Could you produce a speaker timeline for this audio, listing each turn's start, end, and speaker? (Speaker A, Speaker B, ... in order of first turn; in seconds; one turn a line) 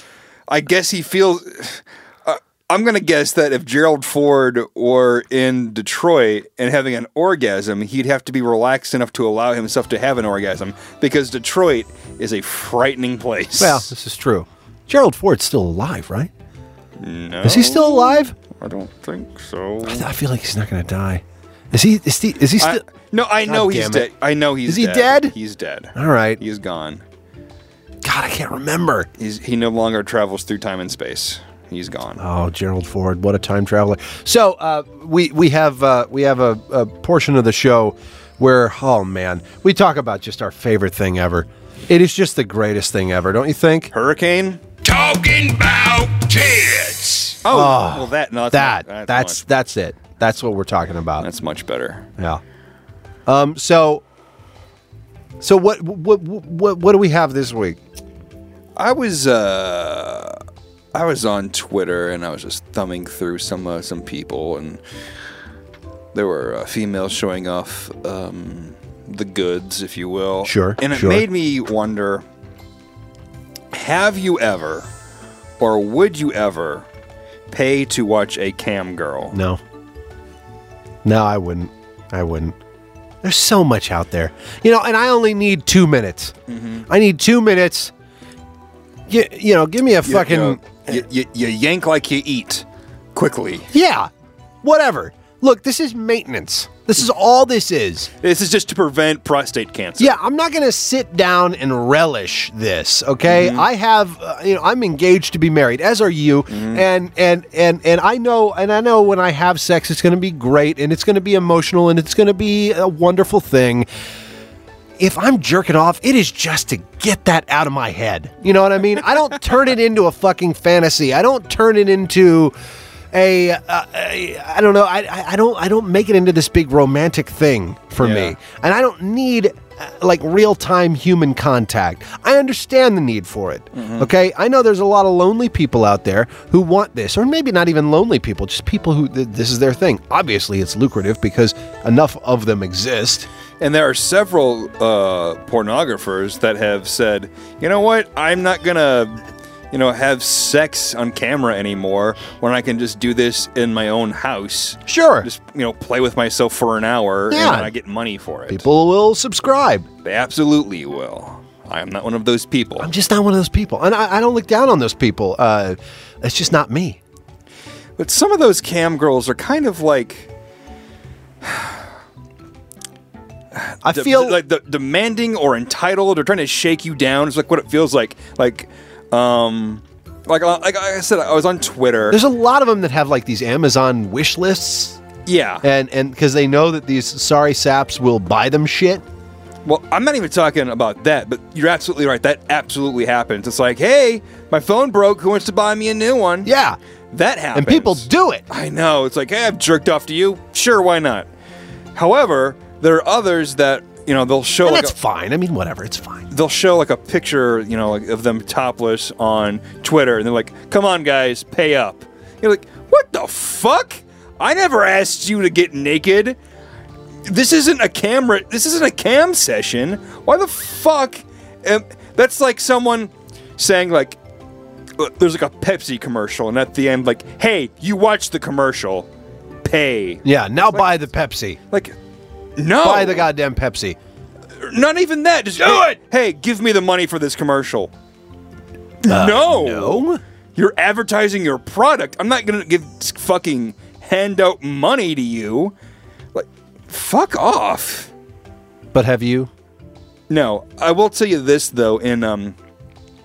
Speaker A: 0.5-13.9
Speaker B: 13.6-16.3
Speaker A: 17.0-20.0
Speaker B: 17.4-18.3
Speaker B: 19.8-22.8
Speaker A: 22.6-27.0
Speaker B: 23.4-24.1
Speaker B: 24.6-25.3
Speaker B: 25.9-26.4
Speaker B: 28.0-29.1
Speaker A: 29.2-32.2
Speaker B: 32.2-43.9
Speaker A: 43.9-44.8
Speaker C: 44.8-47.3
Speaker A: 47.4-49.4
Speaker B: 47.5-51.3
Speaker A: 51.2-52.1
Speaker B: 53.2-54.0
Speaker B: 55.4-57.8
Speaker A: 58.8-60.4
Speaker A: 60.9-64.8
Speaker A: 66.1-72.2
Speaker B: 70.4-71.2
Speaker A: 73.7-74.9
Speaker A: 75.6-76.8
Speaker A: 77.5-79.3
Speaker B: 79.3-79.6
Speaker B: 81.0-82.5
Speaker B: 83.2-86.3
Speaker A: 86.5-86.8
Speaker B: 86.9-87.9
Speaker B: 89.1-90.6
Speaker A: 90.0-93.7
Speaker B: 93.7-94.1
Speaker B: 94.6-98.1
Speaker A: 98.2-100.2
Speaker B: 100.0-113.9
Speaker A: 103.2-103.7
Speaker A: 106.5-106.8
Speaker B: 115.0-122.5
Speaker B: 123.1-143.3
Speaker A: 128.0-128.3
Speaker A: 133.7-134.1
Speaker A: 143.6-149.2
Speaker A: 149.7-158.6
Speaker B: 154.9-155.3
Speaker B: 157.3-157.7
Speaker B: 158.5-159.9
Speaker A: 160.0-162.9
Speaker B: 162.8-167.0
Speaker A: 168.0-170.3
Speaker A: 171.4-171.8
Speaker A: 173.5-182.2
Speaker B: 173.8-174.4
Speaker B: 182.1-185.0
Speaker A: 185.2-185.6
Speaker B: 185.6-189.0
Speaker A: 189.6-196.5
Speaker B: 196.4-196.8
Speaker A: 197.1-201.3
Speaker B: 197.5-198.4
Speaker A: 201.9-204.9
Speaker B: 204.6-206.3
Speaker A: 206.3-216.4
Speaker A: 217.3-224.2
Speaker A: 225.0-229.1
Speaker A: 229.6-230.8
Speaker B: 230.2-231.6
Speaker A: 231.7-231.9
Speaker A: 232.6-233.3
Speaker B: 232.8-234.0
Speaker A: 234.6-237.9
Speaker B: 235.6-236.0
Speaker A: 239.0-245.7
Speaker B: 239.1-240.2
Speaker A: 246.3-248.1
Speaker B: 248.9-249.5
Speaker A: 250.3-252.6